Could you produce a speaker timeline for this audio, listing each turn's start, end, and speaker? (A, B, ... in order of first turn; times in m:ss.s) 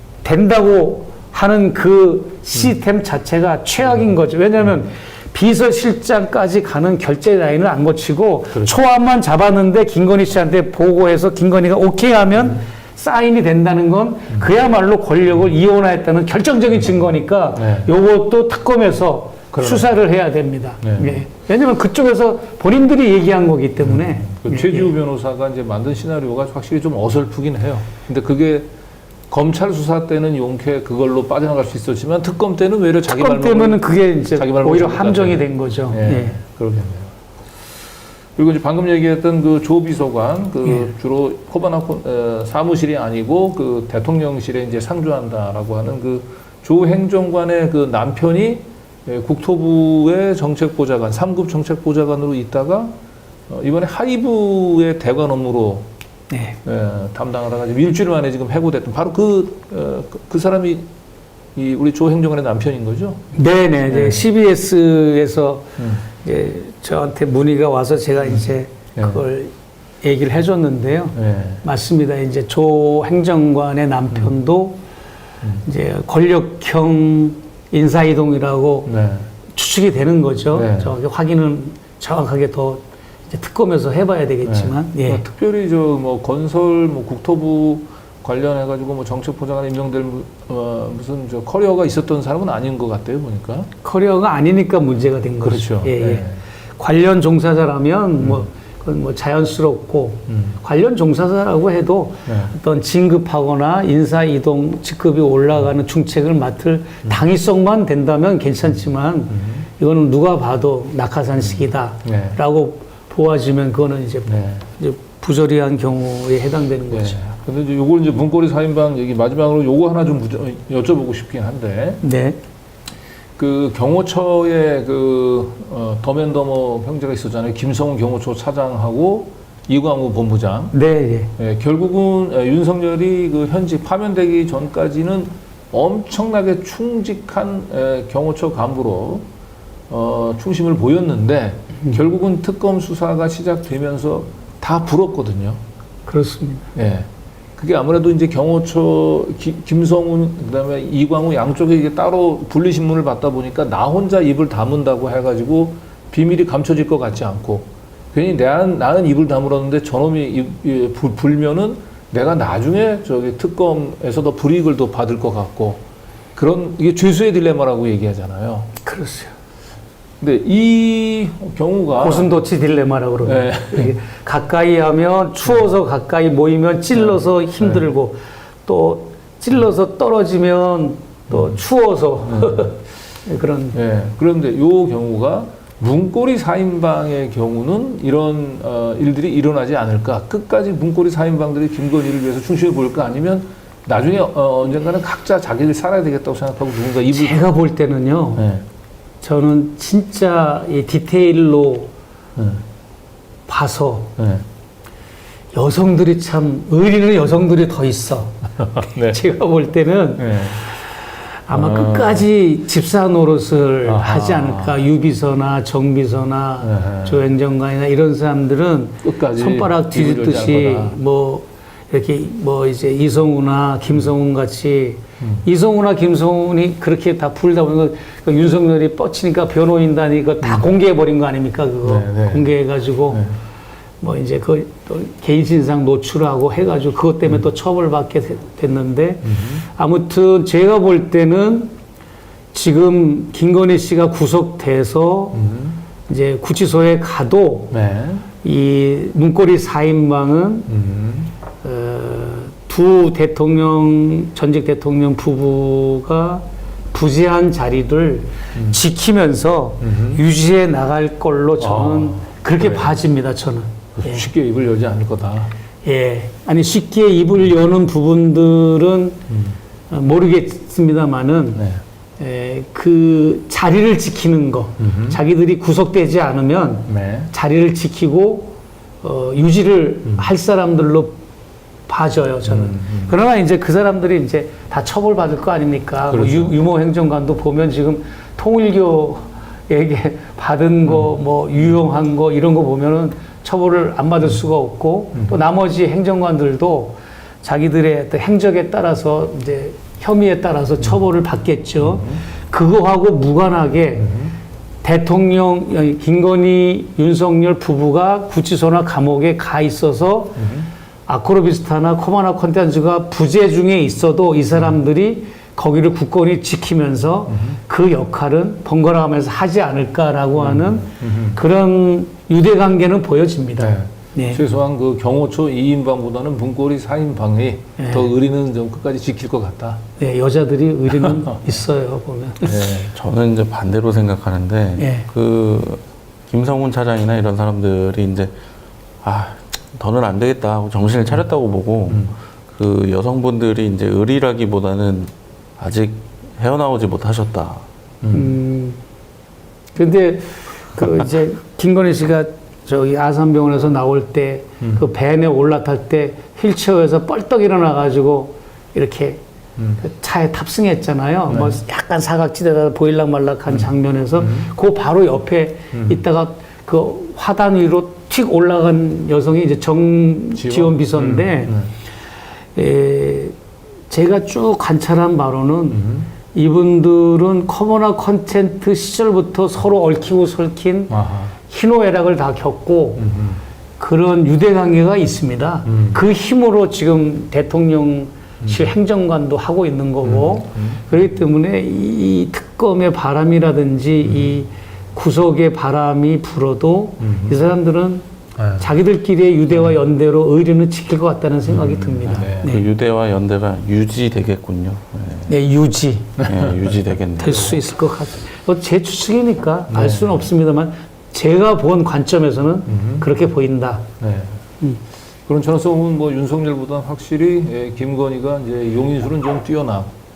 0:00.2-0:24.9 A
0:17.6-0:17.9 B
0:19.5-0:20.0 B
0:20.8-0:21.2 B
0:23.8-0:28.7 B
0:29.3-0:37.1 B
0:33.0-0:36.4 A
0:38.4-0:53.0 B
0:53.5-0:55.9 B
0:56.3-0:56.6 A
0:56.6-1:00.9 B
1:01.6-1:03.2 B
1:03.4-1:05.7 A
1:03.9-1:04.3 B
1:05.8-1:06.0 B
1:06.2-1:09.5 A
1:10.0-1:14.8 A
1:11.2-1:11.6 B
1:15.6-1:18.9 A
1:18.9-1:19.3 B
1:19.6-1:25.2 A
1:20.5-1:20.9 B
1:24.4-1:33.7 B
1:33.8-1:36.3 A
1:35.4-1:36.4 B
1:36.8-1:54.3 A
1:38.2-1:38.5 B
1:40.3-1:40.6 B
1:42.3-1:42.5 B
1:49.3-1:49.7 B
1:51.4-1:52.4 B
1:54.2-1:54.6 B
1:54.8-1:57.2 A
1:56.9-2:02.0 B
2:02.0-2:02.4 A
2:03.4-2:10.8 B
2:10.7-2:11.3 A
2:11.4-2:19.3 B
2:19.9-2:25.6 B
2:26.1-2:26.7 A
2:26.8-2:45.8 B
2:46.4-2:48.7 B
2:48.8-2:49.3 A
2:50.2-2:52.3 B
2:52.0-3:03.8 A
2:53.2-2:53.9 B
2:56.9-2:57.8 B
3:01.3-3:01.6 B
3:02.2-3:02.7 B
3:03.7-3:17.4 B
3:17.1-3:18.5 A
3:18.4-3:18.6 B
3:19.2-3:21.9 A
3:22.4-3:22.6 B
3:23.5-3:24.1 A
3:24.2-3:24.4 B
3:25.5-3:28.4 A
3:28.6-3:29.2 B
3:29.1-3:30.3 A
3:30.2-3:30.6 B
3:31.5-3:53.2 A
3:31.5-3:32.2 B
3:33.8-3:34.8 B
3:36.6-3:37.2 B
3:39.0-3:41.0 B
3:51.8-3:52.6 B
3:54.0-4:01.7 A
3:59.2-3:59.6 B
4:02.5-4:05.4 A
4:05.3-4:05.8 B
4:06.1-4:07.7 A
4:07.7-4:08.3 B
4:08.4-4:10.7 A
4:10.7-4:11.3 B
4:11.6-4:24.2 A
4:18.5-4:18.8 B
4:19.8-4:20.2 B
4:21.6-4:23.0 B
4:24.0-4:25.5 B
4:25.8-4:29.2 A
4:29.3-4:29.6 B
4:29.9-4:31.6 A
4:31.6-4:31.8 B
4:32.2-4:41.2 A
4:34.8-4:35.2 B
4:36.9-4:37.3 B
4:41.9-5:04.1 A
4:42.5-4:43.1 B
4:46.0-4:46.5 B
5:01.8-5:02.2 B
5:04.0-5:04.4 B
5:04.8-5:10.4 A
5:10.4-5:10.7 B
5:11.1-5:24.4 A
5:17.3-5:17.6 B
5:20.4-5:21.4 B
5:23.6-5:29.8 B
5:27.8-5:28.1 A
5:30.0-5:32.7 A
5:30.9-5:31.4 B
5:32.4-5:32.9 B
5:32.9-5:38.3 C
5:34.8-5:35.1 A
5:39.0-5:47.6 C
5:41.9-5:42.1 B
5:48.0-5:48.4 B
5:48.1-5:48.8 A
5:49.8-5:59.2 A
5:59.8-6:11.6 A
6:01.3-6:01.6 B
6:03.5-6:04.5 B
6:05.7-6:06.0 B
6:10.4-6:11.7 B
6:12.6-6:13.4 A
6:13.9-6:20.9 A
6:15.7-6:16.1 B
6:20.9-6:21.3 B
6:21.5-6:23.0 A
6:23.0-6:23.4 B
6:23.8-6:38.0 A
6:25.7-6:26.0 B
6:30.0-6:30.9 B
6:37.0-6:37.4 B
6:38.4-6:38.7 B
6:38.6-6:42.7 A
6:41.5-6:42.6 B
6:42.3-6:45.3 C
6:45.3-6:46.2 A
6:46.2-6:46.7 B
6:46.2-6:47.6 C
6:47.2-6:53.8 A
6:49.7-6:50.3 B
6:52.7-6:53.1 B
6:54.0-6:54.4 B
6:55.3-6:59.9 B